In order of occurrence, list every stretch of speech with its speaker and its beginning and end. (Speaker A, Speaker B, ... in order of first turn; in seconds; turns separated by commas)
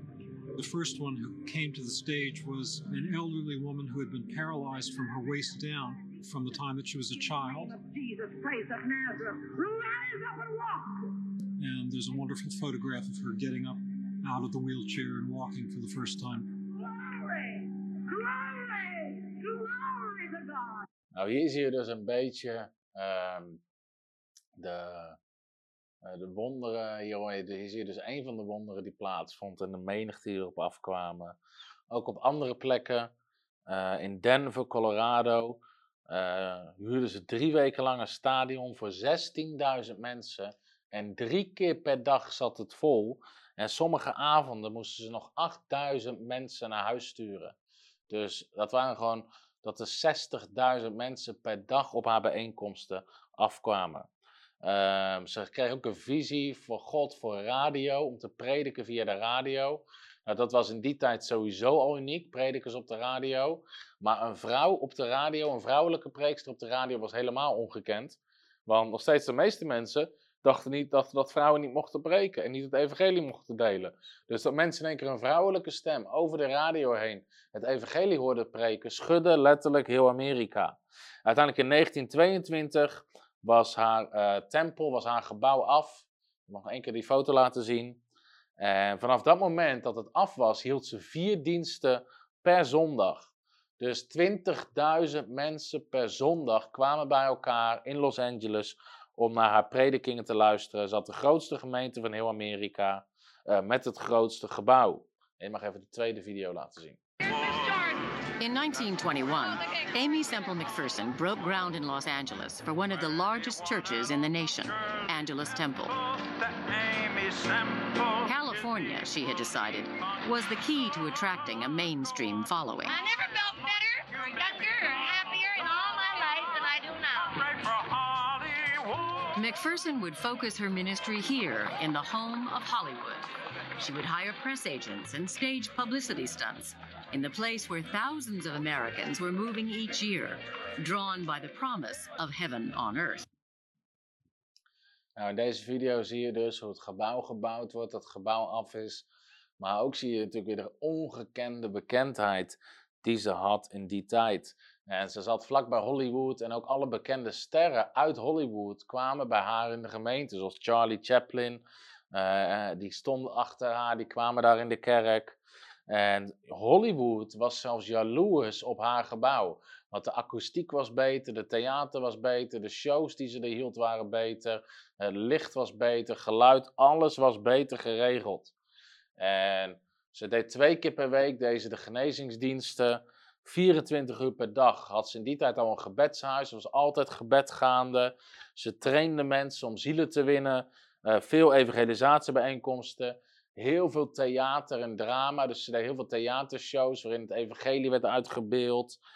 Speaker A: 0.6-7.7, Speaker B: 7.2-11.2, Speaker A: 11.6-16.6, Speaker B: 16.7-20.9, Speaker C: 21.1-23.6, Speaker C: 24.6-25.2, Speaker C: 26.0-31.4, Speaker C: 31.9-33.1, Speaker C: 33.7-47.5, Speaker C: 48.1-54.1, Speaker C: 54.6-88.0, Speaker C: 88.6-107.0, Speaker D: 108.4-116.1, Speaker D: 118.2-123.0, Speaker E: 122.9-127.4, Speaker D: 129.3-143.2, Speaker C: 145.2-149.1, Speaker C: 149.6-165.4, Speaker C: 165.9-178.5, Speaker C: 179.2-199.0